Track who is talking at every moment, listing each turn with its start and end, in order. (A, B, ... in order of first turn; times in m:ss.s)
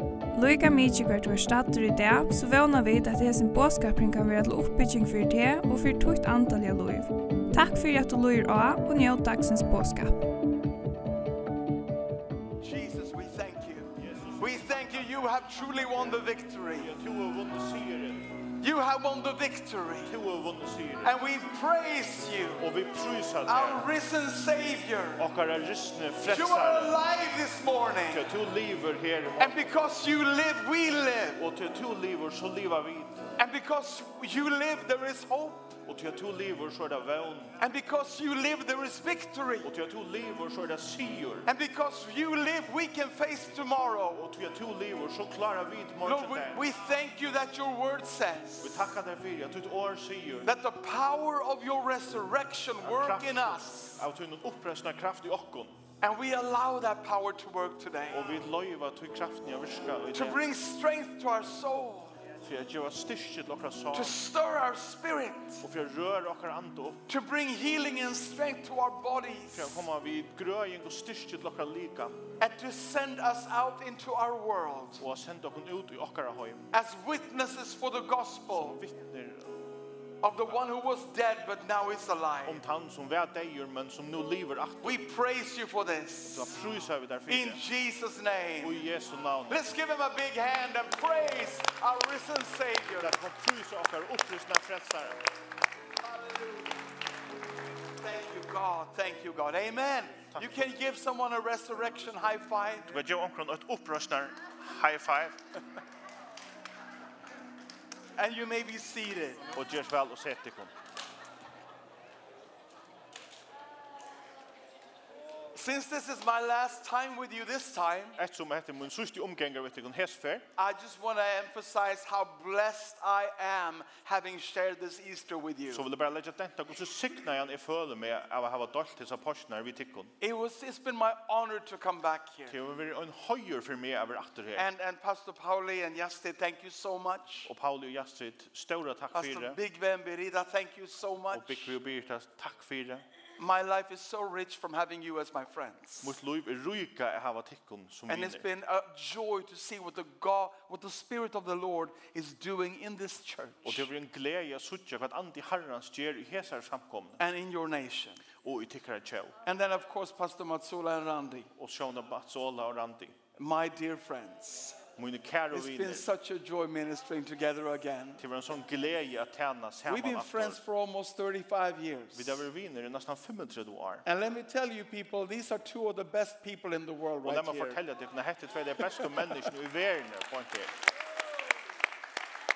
0:00.3-0:10.3 A
0:12.6-0:16.9 B
0:14.0-0:18.4 C
0:18.5-0:20.1 B
0:20.0-0:21.2 C
0:21.0-0:22.7 B
0:22.6-0:23.9 C
0:23.4-0:25.3 B
0:25.2-0:27.0 C
0:26.2-0:28.3 B
0:28.1-0:29.6 C
0:29.4-0:31.4 B
0:31.4-0:33.3 C
0:33.4-0:35.8 B
0:35.8-0:37.6 C
0:37.6-0:39.7 B
0:39.6-0:41.5 C
0:41.4-0:44.2 B
0:44.1-0:46.7 C
0:46.0-0:48.9 B
0:48.6-0:50.5 C
0:50.4-0:54.0 B
0:52.8-0:55.8 C
0:56.0-0:58.3 B
0:58.1-1:00.4 C
1:00.1-1:02.1 B
1:02.4-1:04.2 C
1:03.9-1:05.6 B
1:05.6-1:07.0 C
1:07.1-1:09.8 B
1:09.5-1:12.2 C
1:12.4-1:15.0 B
1:15.0-1:16.7 C
1:16.7-1:18.8 B
1:18.5-1:19.6 C
1:20.2-1:22.6 B
1:22.4-1:25.0 C
1:24.8-1:26.5 B
1:26.2-1:27.6 C
1:27.3-1:28.8 B
1:28.6-1:29.7 C
1:29.5-1:33.2 B
1:33.0-1:35.2 C
1:36.0-1:36.8 B
1:38.0-1:42.9 B
1:40.3-1:40.8 C
1:42.9-1:45.4 C
1:48.2-1:49.5 B
1:49.5-1:50.7 C
1:55.5-1:58.2 B
1:58.2-2:00.5 C
2:00.6-2:05.8 B
2:05.7-2:10.1 C
2:10.2-2:12.6 B
2:12.5-2:14.7 C
2:14.5-2:17.5 B
2:17.4-2:19.6 C
2:19.1-2:21.8 B
2:21.3-2:23.0 C
2:23.4-2:26.2 B
2:26.0-2:28.5 C
2:28.1-2:33.9 B
2:33.6-2:37.2 C
2:37.2-2:38.2 B
2:38.4-2:39.4 C
2:39.4-2:41.5 B
2:41.5-2:43.2 C
2:43.4-2:44.8 B
2:45.0-2:46.1 C
2:45.5-2:48.2 B
2:48.2-2:50.6 C
2:49.9-2:52.5 B
2:52.1-2:54.0 C
2:54.0-2:57.8 B
2:57.2-3:00.7 C